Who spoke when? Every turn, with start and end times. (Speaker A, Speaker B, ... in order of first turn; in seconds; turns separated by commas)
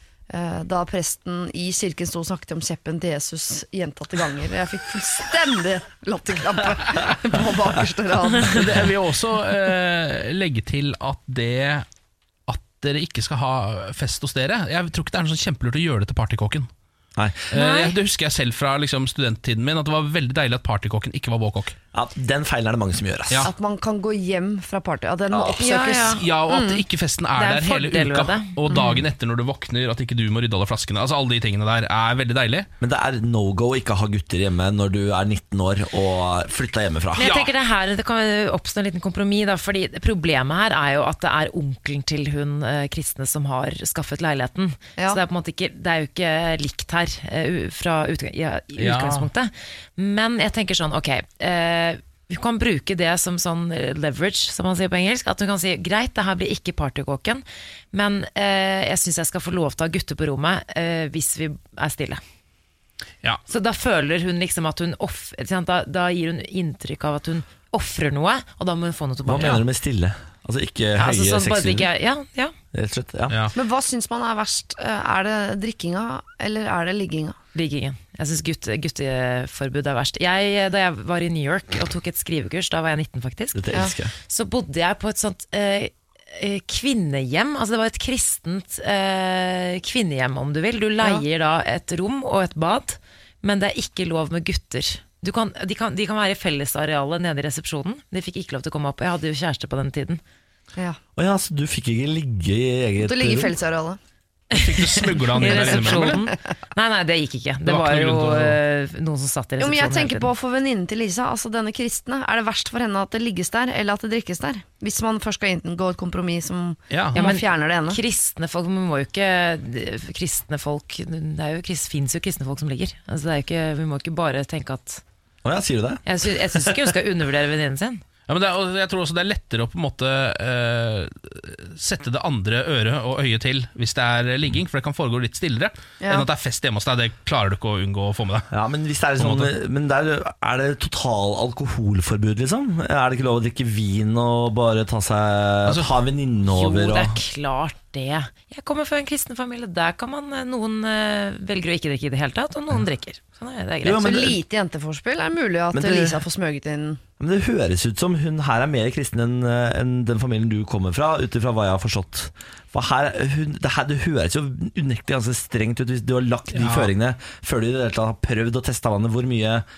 Speaker A: 0.3-8.8, Speaker B: 8.5-11.8, Speaker B: 12.5-16.7, Speaker C: 17.1-17.5, Speaker B: 17.5-21.8, Speaker D: 17.5-17.9, Speaker C: 21.9-23.5, Speaker A: 23.4-26.8, Speaker D: 25.4-26.2, Speaker B: 26.1-32.7, Speaker D: 27.4-29.0, Speaker C: 32.8-37.4, Speaker D: 37.1-62.2, Speaker B: 37.2-37.5, Speaker B: 48.8-49.3, Speaker D: 63.5-69.6, Speaker C: 69.2-71.9, Speaker D: 71.0-72.5, Speaker C: 72.7-73.5, Speaker A: 73.5-77.3, Speaker D: 77.5-100.2, Speaker C: 83.5-84.1, Speaker C: 101.2-103.5, Speaker A: 103.0-104.0, Speaker B: 104.5-106.2, Speaker D: 104.5-110.3, Speaker A: 105.5-106.3, Speaker B: 107.7-108.6, Speaker A: 109.6-118.0, Speaker B: 116.9-117.2, Speaker D: 117.1-125.0, Speaker C: 125.4-126.9, Speaker D: 126.0-128.0, Speaker B: 128.3-138.5, Speaker A: 136.0-136.3, Speaker C: 138.5-147.2, Speaker B: 139.2-139.5, Speaker B: 145.7-145.9, Speaker D: 146.5-154.3, Speaker C: 153.8-154.4, Speaker A: 153.9-157.0, Speaker C: 155.7-156.2, Speaker C: 157.2-169.6, Speaker B: 166.5-166.9